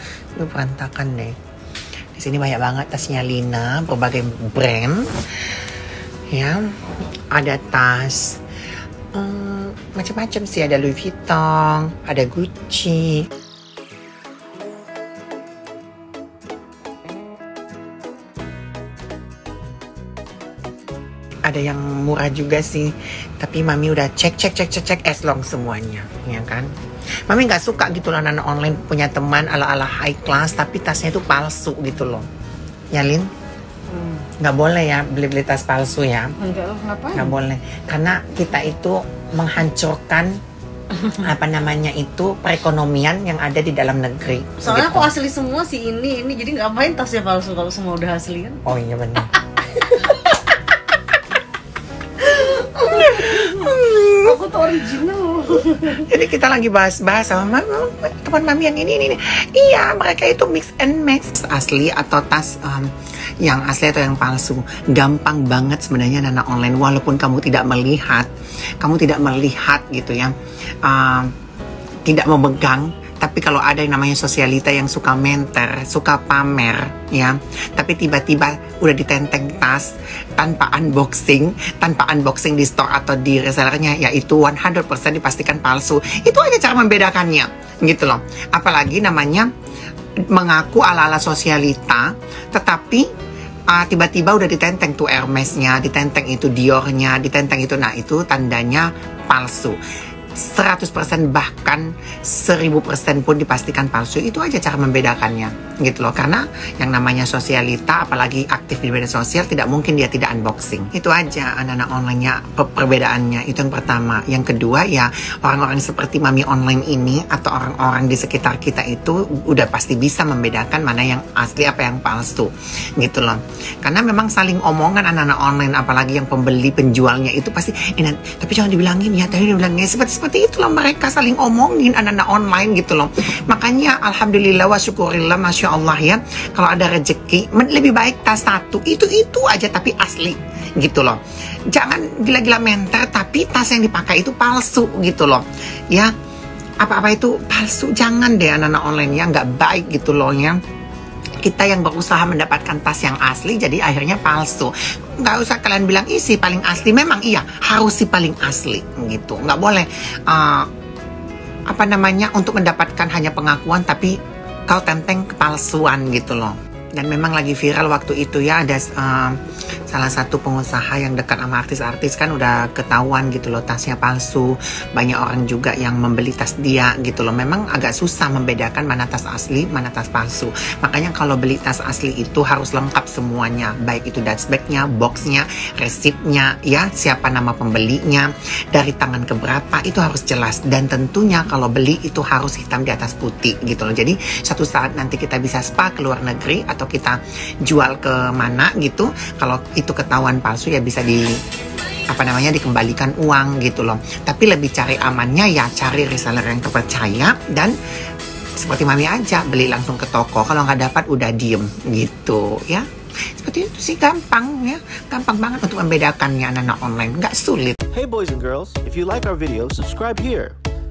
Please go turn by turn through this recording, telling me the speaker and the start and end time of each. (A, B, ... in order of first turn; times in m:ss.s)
0:00.4-0:01.4 A
0:02.1-0:05.6 A
0:06.3-0:06.7 A
0:07.3-0:08.4 A
0:09.1-0:13.3 A
0:21.4-0:26.7 A
0:27.3-0:32.2 A
0:32.9-0:33.3 A
0:33.9-0:34.2 B
0:34.4-0:36.3 A
0:36.4-0:37.3 B
0:37.1-0:40.3 A
0:41.0-0:45.1 A
0:44.6-0:48.6 B
0:48.6-0:49.4 A
0:49.4-0:50.6 B
0:52.2-0:56.1 B
0:52.8-0:54.4 A
0:55.6-1:08.3 A
1:08.8-1:10.3 A
1:10.8-1:11.3 A
1:12.0-1:29.5 A
1:30.3-1:33.1 A
1:33.7-1:39.8 A
1:40.3-2:21.2 A
2:21.7-2:26.1 A
2:26.8-2:30.6 A
2:31.4-2:40.7 A
2:41.7-2:44.1 A
2:44.7-3:21.3 A
3:22.1-3:27.7 A
3:28.6-3:32.8 A
3:33.4-3:37.8 A
3:37.9-3:40.6 C